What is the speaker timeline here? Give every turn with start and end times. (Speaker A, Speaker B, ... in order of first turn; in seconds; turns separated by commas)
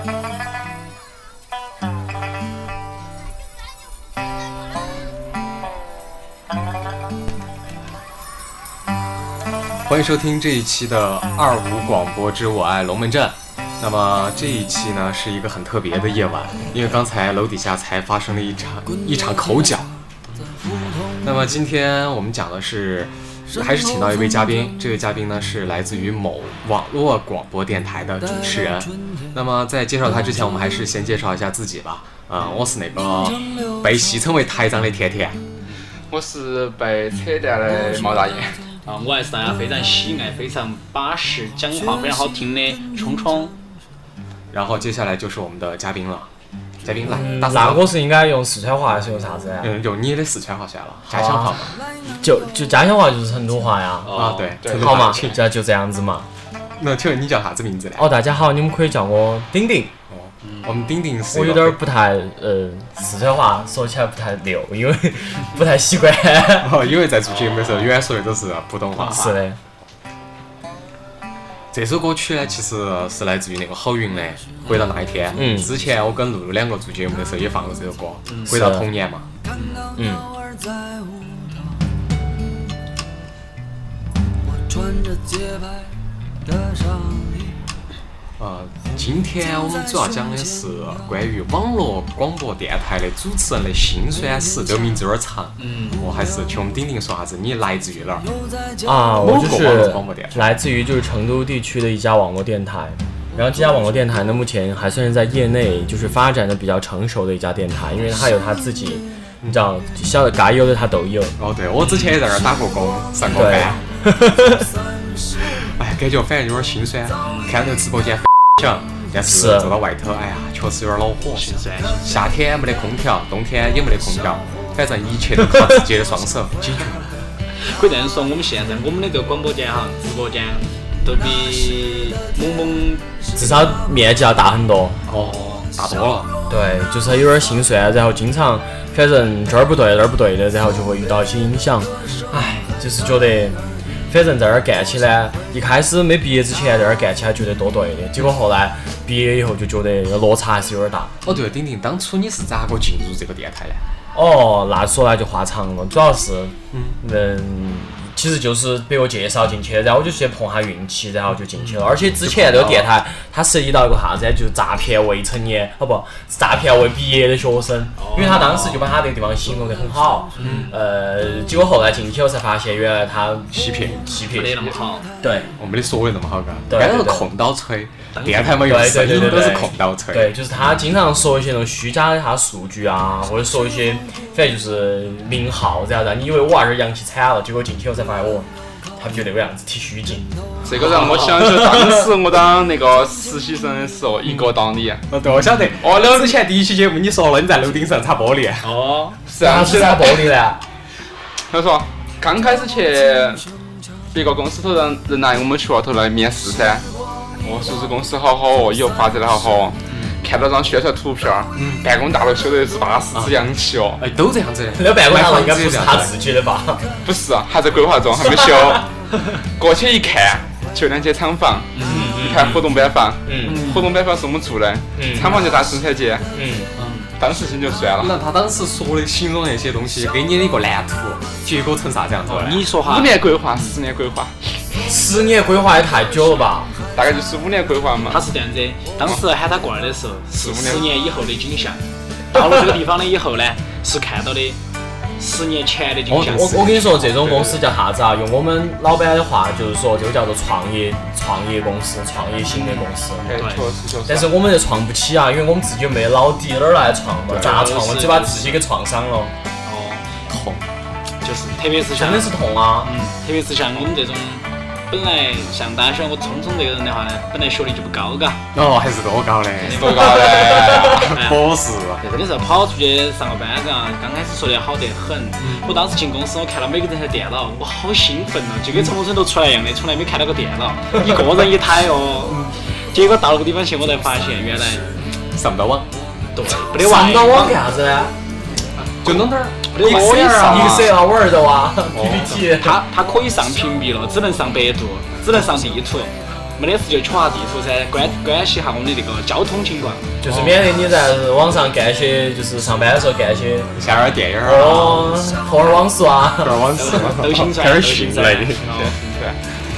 Speaker A: 9.9-19.9, Speaker B: 14.4-14.7, Speaker A: 21.1-35.4, Speaker C: 36.1-38.6, Speaker B: 38.9-43.5, Speaker A: 44.5-46.3, Speaker A: 46.8-47.9, Speaker D: 47.0-49.7, Speaker A: 49.6-51.8, Speaker D: 51.1-56.3, Speaker B: 54.0-54.6, Speaker A: 54.1-55.4, Speaker C: 54.6-55.3, Speaker A: 56.8-58.1, Speaker D: 58.0-59.9, Speaker A: 60.1-61.8, Speaker B: 60.4-60.9, Speaker D: 61.3-66.8, Speaker A: 66.6-69.3, Speaker B: 67.2-68.0, Speaker B: 69.0-69.4, Speaker D: 69.0-69.6, Speaker A: 71.7-79.3, Speaker B: 74.6-74.9, Speaker D: 75.3-75.7, Speaker B: 78.3-78.5, Speaker D: 78.5-78.9, Speaker B: 79.5-79.9, Speaker D: 80.0-80.3, Speaker A: 88.4-98.3, Speaker B: 95.6-96.0, Speaker D: 98.8-111.3, Speaker A: 99.1-100.5, Speaker A: 111.4-113.8, Speaker B: 111.8-112.2, Speaker D: 113.3-114.7, Speaker A: 115.3-121.5, Speaker B: 117.2-117.5, Speaker D: 119.2-119.8, Speaker B: 121.3-122.2, Speaker A: 122.0-127.2, Speaker D: 125.5-125.8, Speaker B: 127.6-133.1, Speaker D: 133.4-135.0, Speaker A: 135.1-136.3, Speaker B: 135.1-135.7, Speaker D: 136.5-151.3, Speaker A: 151.2-153.8, Speaker D: 154.1-174.6, Speaker A: 156.7-157.0, Speaker A: 161.5-162.9, Speaker B: 168.0-168.8, Speaker A: 168.2-168.6, Speaker B: 170.4-170.7, Speaker A: 170.4-170.7, Speaker A: 173.5-174.0, Speaker B: 174.2-175.1, Speaker D: 175.2-175.5, Speaker A: 175.6-180.4, Speaker D: 176.7-177.3, Speaker B: 178.1-179.1, Speaker D: 178.6-192.1, Speaker C: 190.6-195.1, Speaker B: 190.8-191.4, Speaker A: 194.2-194.5, Speaker A: 195.1-198.7, Speaker B: 195.2-195.7, Speaker C: 195.8-196.4, Speaker B: 198.6-199.2, Speaker C: 199.3-200.3, Speaker D: 199.4-200.6, Speaker C: 201.5-203.4, Speaker C: 204.1-206.8, Speaker C: 207.4-214.0, Speaker B: 209.9-210.2, Speaker A: 211.6-211.8, Speaker A: 213.2-213.4, Speaker A: 214.0-216.1, Speaker D: 214.8-216.8, Speaker C: 217.0-218.9, Speaker D: 218.2-218.8, Speaker C: 219.6-226.3, Speaker B: 221.7-222.2, Speaker D: 221.8-222.7, Speaker D: 223.2-223.7, Speaker B: 223.4-224.0, Speaker D: 225.0-225.4, Speaker B: 225.2-225.6, Speaker D: 226.3-226.7, Speaker B: 226.8-227.1, Speaker C: 227.2-228.2, Speaker A: 228.0-232.7, Speaker B: 232.3-233.8, Speaker C: 232.9-234.4, Speaker D: 234.8-236.7, Speaker C: 236.9-238.2, Speaker B: 238.1-244.6, Speaker C: 240.3-240.9, Speaker B: 245.2-246.7, Speaker A: 246.1-247.6, Speaker D: 246.2-253.3, Speaker B: 252.5-253.7, Speaker C: 253.2-254.3, Speaker D: 254.1-259.3, Speaker A: 257.3-257.6, Speaker B: 257.4-258.6, Speaker B: 259.6-260.1, Speaker A: 260.3-260.7, Speaker B: 261.2-268.4, Speaker D: 261.9-262.9, Speaker A: 268.5-272.0, Speaker B: 269.6-271.4, Speaker C: 269.6-271.2, Speaker B: 272.0-285.0, Speaker A: 275.4-275.7, Speaker A: 278.7-279.0, Speaker A: 282.3-282.5, Speaker A: 285.3-285.9, Speaker B: 286.4-287.6, Speaker D: 286.7-288.1, Speaker A: 289.0-290.7, Speaker B: 289.7-290.8, Speaker D: 290.4-292.8, Speaker C: 290.5-290.9, Speaker A: 291.9-292.5, Speaker B: 292.4-300.1, Speaker D: 300.2-303.7, Speaker A: 300.2-300.7, Speaker A: 303.8-305.2, Speaker D: 304.4-306.7, Speaker A: 306.4-308.6, Speaker B: 306.8-309.0, Speaker C: 308.7-309.4